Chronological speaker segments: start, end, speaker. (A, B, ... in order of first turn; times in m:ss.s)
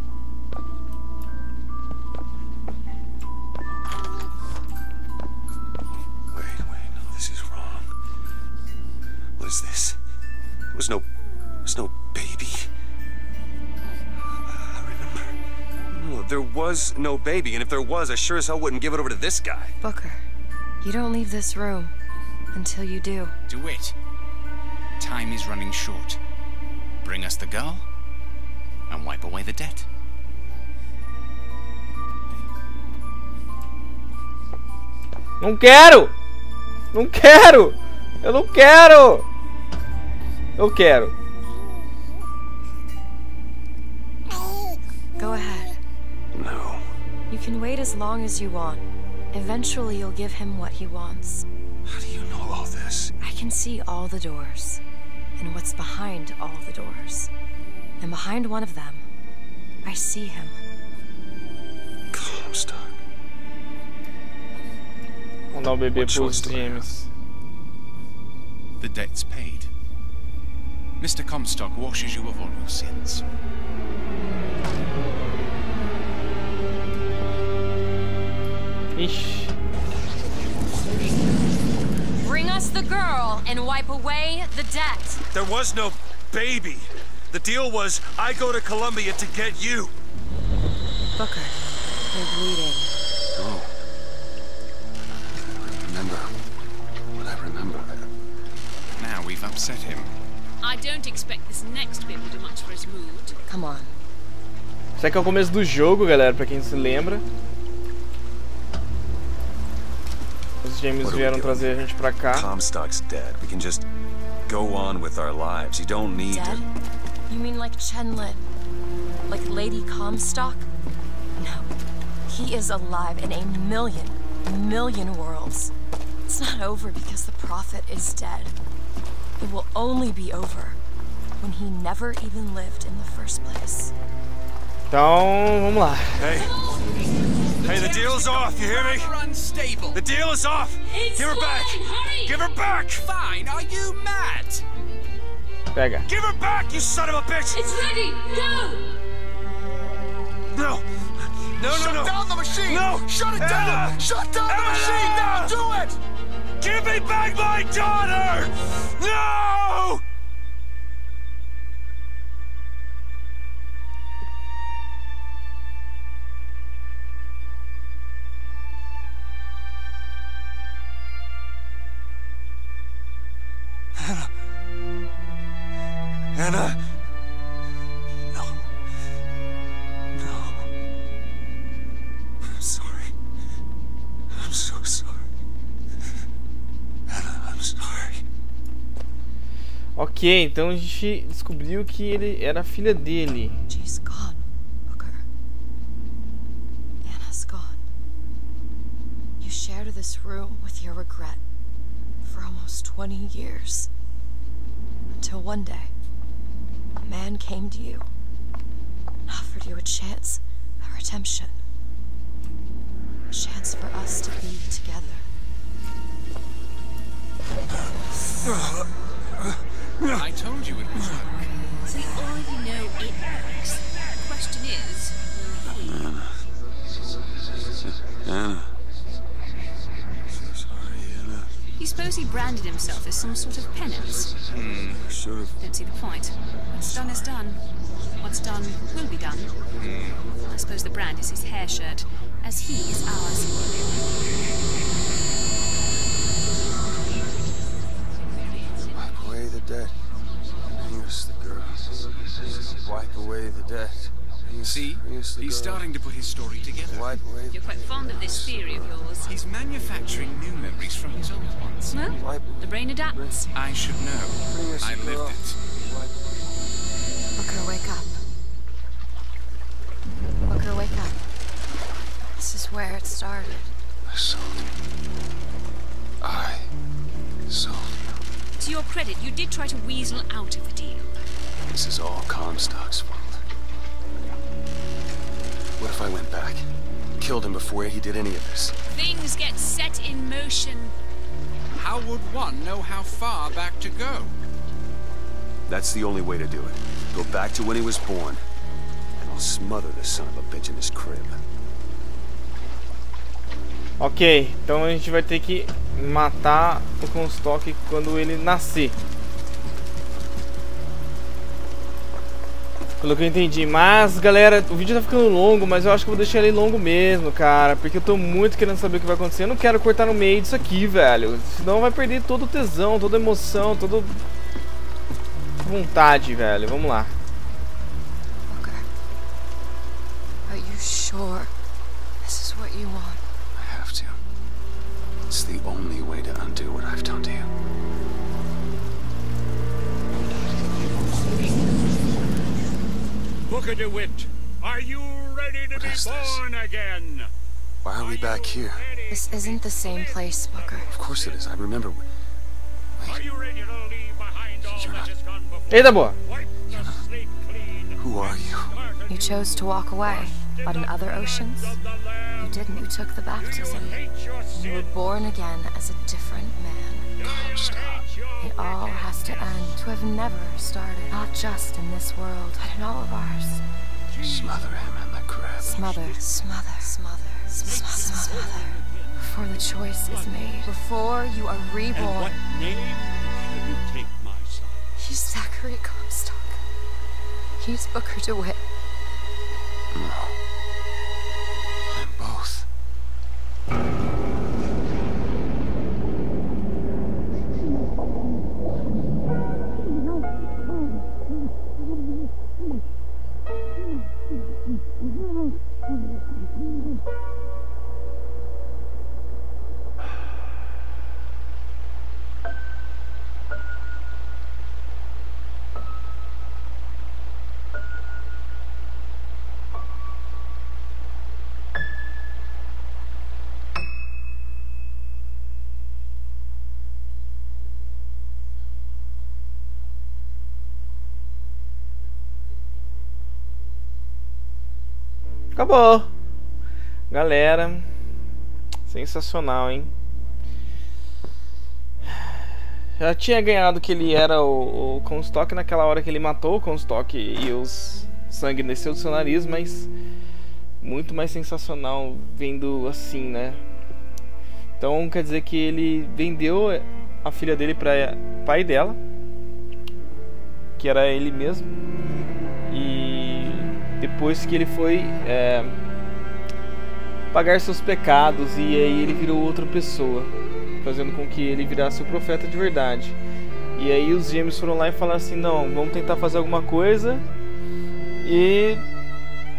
0:06.3-0:07.9 A
0:09.4-0:10.0 A
0:10.7-0:11.1 A
0:11.6-0:12.7 A
0:14.4-0:15.3 A
0:15.9-0:19.7 A
0:19.8-0:20.2 B
0:20.8-0:21.9 B
0:22.5-0:23.3 B
0:23.5-0:23.9 C
0:25.0-0:26.2 C
0:27.0-0:27.8 C
0:28.9-0:29.9 C
0:35.4-0:36.1 D
0:36.9-0:39.2 D
0:40.6-0:41.1 D
0:45.2-0:45.8 B
0:46.3-0:46.8 A
0:47.3-0:51.4 B
0:51.8-0:53.1 A
0:53.2-0:54.8 B
0:55.4-0:57.3 B
0:58.0-0:59.0 B
0:59.8-1:00.5 B
1:02.1-1:03.0 A
1:05.5-1:07.1 D
1:05.9-1:06.8 A
1:08.8-1:09.7 C
1:11.0-1:13.2 C
1:19.0-1:19.5 D
1:22.2-1:25.2 B
1:25.3-1:29.9 A
1:31.2-1:31.6 B
1:32.1-1:32.9 B
1:33.4-1:33.7 A
1:35.4-1:36.3 A
1:37.2-1:38.0 A
1:39.0-1:40.1 C
1:40.6-1:43.4 E
1:43.5-1:43.9 B
1:45.0-1:47.2 D
1:50.6-1:52.5 D
1:51.0-1:53.8 A
1:54.4-1:56.6 A
1:56.3-1:56.6 B
1:57.3-1:58.5 B
1:59.3-2:00.7 B
2:01.4-2:01.7 B
2:02.3-2:05.7 B
2:06.3-2:08.5 B
2:09.4-2:10.8 B
2:11.4-2:13.9 B
2:14.9-2:16.2 D
2:16.2-2:16.5 A
2:17.6-2:20.0 C
2:17.6-2:19.1 A
2:19.9-2:23.1 A
2:20.8-2:22.4 E
2:23.0-2:24.6 C
2:25.7-2:26.0 D
2:26.1-2:27.8 A
2:27.5-2:28.8 E
2:30.5-2:30.8 A
2:31.4-2:35.6 A
2:31.6-2:36.0 F
2:36.6-2:40.0 A
2:53.9-2:54.3 A
2:56.3-2:56.8 A
2:58.3-2:58.7 A
3:00.1-3:00.6 A
3:02.4-3:03.1 A
3:04.3-3:05.2 A
3:07.1-3:08.2 A
3:10.0-3:13.6 D
3:13.7-3:15.2 B
3:17.0-3:17.8 B
3:19.4-3:21.4 B
3:22.2-3:23.9 B
3:25.1-3:25.9 B
3:27.0-3:28.1 B
3:29.3-3:31.6 B
3:33.3-3:35.3 B
3:38.4-3:40.3 A
3:40.1-3:41.6 C
3:41.8-3:46.1 E
3:45.7-3:46.3 A
3:47.8-3:48.7 A
3:50.3-3:51.5 A
3:51.8-3:54.3 E
3:54.5-3:55.1 C
3:54.9-3:55.5 A
3:55.6-3:57.6 E
3:56.8-3:57.4 A
3:58.2-3:59.6 E
3:59.8-4:00.2 C
4:00.4-4:04.0 E
4:08.4-4:09.0 E
4:08.9-4:09.9 A
4:10.7-4:11.8 A
4:12.5-4:15.9 A
4:14.6-4:17.2 C
4:16.9-4:18.9 A
4:17.5-4:19.3 E
4:19.2-4:22.0 C
4:21.9-4:23.5 E
4:22.1-4:22.6 A
4:23.5-4:25.8 C
4:24.5-4:26.1 A
4:27.4-4:28.2 B
4:30.5-4:31.2 B
4:32.2-4:33.7 B
4:34.1-4:34.7 A
4:36.2-4:36.7 A
4:37.5-4:38.2 A
4:38.6-4:41.1 E
4:41.7-4:43.4 A
4:45.8-4:48.7 A
4:48.9-4:50.9 E
4:51.7-4:54.4 C
4:55.7-4:58.4 A
4:59.2-5:01.4 A
5:04.0-5:09.0 D
5:13.0-5:24.2 D
5:25.6-5:27.1 D
5:28.5-5:28.8 B
5:30.5-5:31.5 B
5:32.2-5:33.2 B
5:33.5-5:34.2 A
5:35.3-5:37.5 A
5:43.5-5:47.3 G
5:45.7-5:46.4 A
5:47.8-5:48.9 A
5:47.9-5:51.4 G
5:49.1-5:51.0 B
5:50.9-5:52.0 A
5:53.0-5:53.2 A
5:53.0-6:05.3 G
5:54.6-5:55.1 A
5:55.7-5:56.2 D
5:58.0-5:58.8 A
5:59.1-6:01.8 B
6:02.4-6:04.0 B
6:04.5-6:07.1 B
6:07.2-6:09.8 G
6:07.2-6:08.0 A
6:08.4-6:13.6 B
6:14.1-6:14.9 G
6:14.2-6:16.0 A
6:15.6-6:17.0 G
6:15.7-6:22.4 B
6:17.5-6:20.8 G
6:21.9-6:24.9 G
6:25.0-6:26.6 B
6:27.6-6:28.6 B
6:29.9-6:30.4 A
6:31.9-6:32.7 A
7:15.5-7:16.1 D
7:17.1-7:17.9 D
7:18.9-7:19.9 D
7:23.0-7:29.9 D
7:30.8-7:33.6 D
7:34.8-7:39.0 D
7:40.8-7:41.7 D
7:42.7-7:45.8 D
7:47.3-7:53.2 D
7:53.8-7:57.2 D
7:58.2-7:58.8 D